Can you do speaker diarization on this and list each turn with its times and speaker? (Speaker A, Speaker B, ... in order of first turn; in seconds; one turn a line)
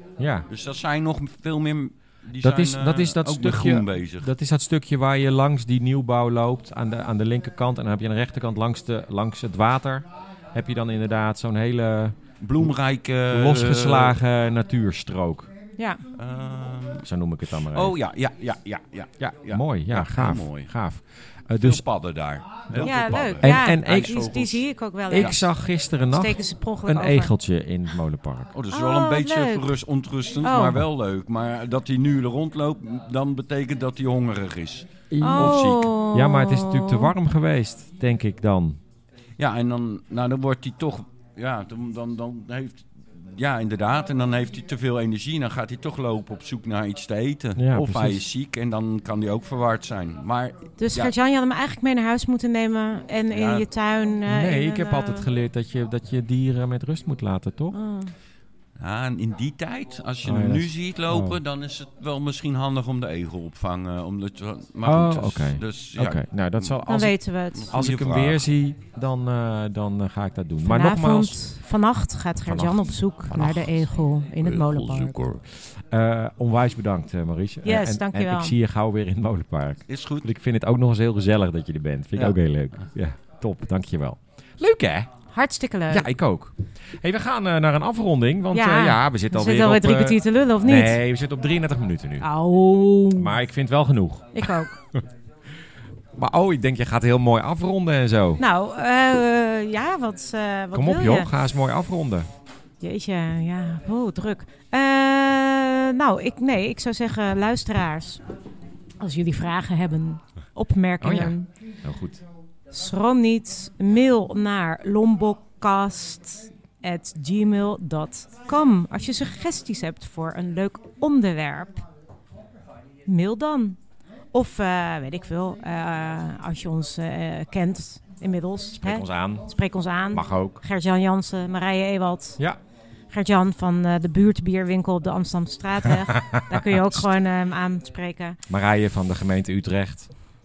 Speaker A: 0.2-0.5
Speaker B: 0.5-4.3
Speaker A: 2.4-12.7
Speaker B: 12.4-14.2
Speaker A: 13.3-15.5
Speaker C: 15.8-16.0
Speaker B: 16.2-17.1
Speaker A: 17.0-17.9
Speaker B: 17.6-20.7
Speaker A: 19.2-21.8
Speaker B: 21.6-24.6
Speaker A: 22.8-24.2
Speaker C: 22.8-25.4
Speaker A: 25.1-28.5
Speaker B: 25.1-25.4
Speaker C: 26.1-27.3
Speaker B: 28.5-35.9
Speaker C: 28.7-29.7
Speaker C: 30.4-30.8
Speaker A: 35.1-38.8
Speaker C: 35.2-37.1
Speaker B: 39.4-51.1
Speaker A: 47.6-48.2
Speaker C: 50.8-55.3
Speaker B: 53.3-53.7
Speaker A: 54.2-57.7
Speaker C: 57.7-58.1
Speaker B: 58.8-66.8
Speaker A: 60.2-61.4
Speaker A: 64.8-67.2
Speaker C: 66.8-67.7
Speaker B: 67.5-68.4
Speaker A: 67.7-71.4
Speaker C: 70.6-75.2
Speaker A: 72.5-72.8
Speaker A: 73.3-73.7
Speaker B: 74.4-75.4
Speaker A: 75.5-85.1
Speaker C: 77.6-78.5
Speaker B: 79.9-80.3
Speaker C: 85.3-86.1
Speaker A: 85.9-92.3
Speaker C: 88.5-91.0
Speaker C: 92.2-93.3
Speaker A: 93.2-95.0
Speaker C: 94.3-94.7
Speaker A: 96.1-98.4
Speaker C: 98.4-101.3
Speaker A: 100.7-102.3
Speaker C: 102.8-108.2
Speaker C: 109.0-111.5
Speaker A: 111.0-112.2
Speaker C: 112.7-121.8
Speaker C: 123.0-123.8
Speaker C: 124.3-132.4
Speaker A: 128.8-129.4
Speaker A: 130.1-130.6
Speaker C: 133.1-138.4
Speaker A: 136.2-136.5
Speaker A: 138.5-140.1